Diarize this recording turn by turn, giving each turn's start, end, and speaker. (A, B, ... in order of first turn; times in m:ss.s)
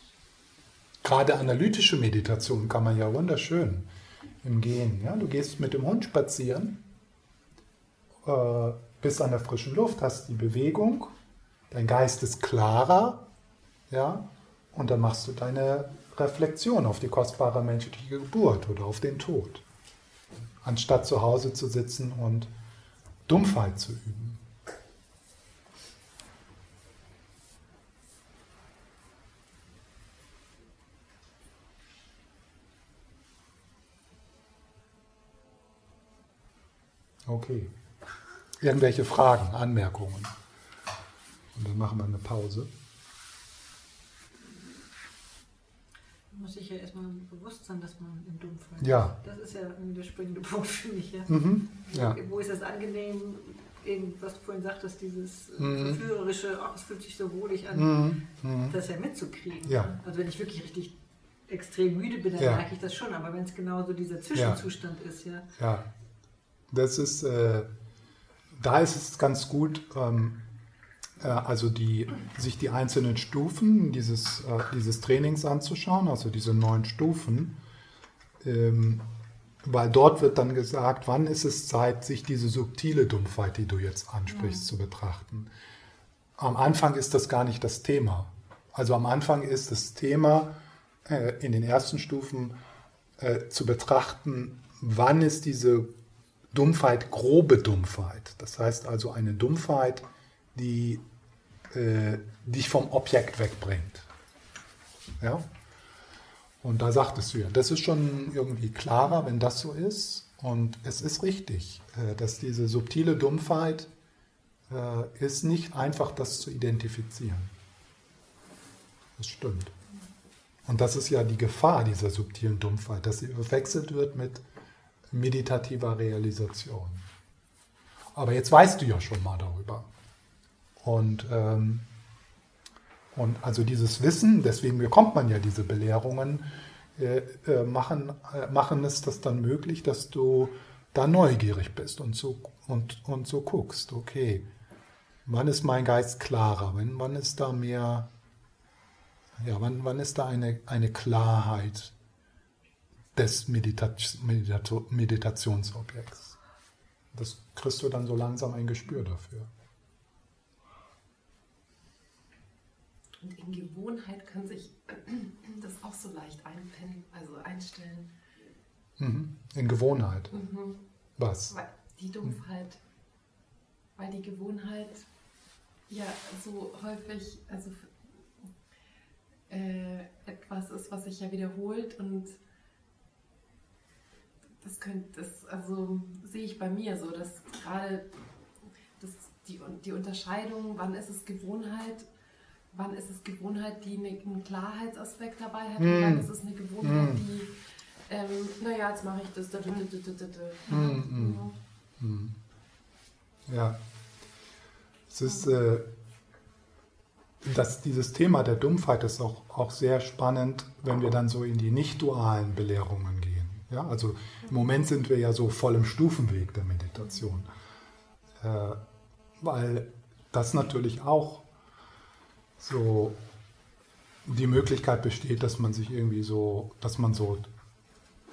0:01.0-0:03.9 A
0:04.4-0:06.8 A
0:08.2-0:11.1 A
0:11.7-0:13.2 A
0:13.9-0:19.6 A
0:20.6-0:22.5 A
0:23.3-0:24.4 A
0:37.3-0:37.7 A
0:38.6-0:40.3 A
0:41.5-0:42.7 A
0:46.3-0:51.3 B
0:48.8-0:49.2 A
0:51.3-0:52.2 A
0:51.8-0:58.1 B
0:55.6-0:56.0 A
0:57.7-0:58.8 A
0:58.7-1:00.9 B
0:59.6-0:59.9 A
1:01.5-1:05.5 B
1:02.4-1:02.6 A
1:04.3-1:04.6 A
1:05.6-1:05.9 A
1:06.7-1:07.7 A
1:08.6-1:10.4 A
1:11.2-1:17.6 A
1:18.4-1:19.0 A
1:19.6-1:25.5 A
1:26.4-1:30.5 A
1:31.0-1:32.5 A
1:33.2-1:35.9 A
1:36.5-1:41.0 A
1:41.7-1:44.1 A
1:46.6-1:53.9 A
1:54.7-1:57.5 A
1:59.2-1:59.7 A
2:00.6-2:04.4 A
2:05.1-2:07.0 A
2:08.1-2:09.9 A
2:10.8-2:11.9 A
2:13.1-2:16.4 A
2:17.0-2:24.4 A
2:25.2-2:28.1 A
2:29.4-2:31.9 A
2:33.1-2:36.4 A
2:37.1-2:39.5 A
2:43.2-2:48.1 C
2:49.0-2:50.3 A
2:50.3-2:50.8 C
2:51.2-2:51.5 A
2:51.5-2:52.8 C
2:54.0-2:55.1 C
2:55.9-2:58.5 C
2:59.5-3:02.4 C
3:04.6-3:08.1 C
3:09.0-3:12.1 C
3:12.7-3:17.5 C
3:15.8-3:16.3 A
3:16.8-3:17.2 A
3:18.0-3:21.6 C
3:20.7-3:21.4 A
3:22.0-3:22.4 A
3:23.5-3:23.8 A
3:25.1-3:25.9 A
3:27.4-3:37.5 A
3:38.4-3:38.8 A
3:39.4-3:41.4 A
3:42.6-3:43.2 A
3:44.2-3:47.5 A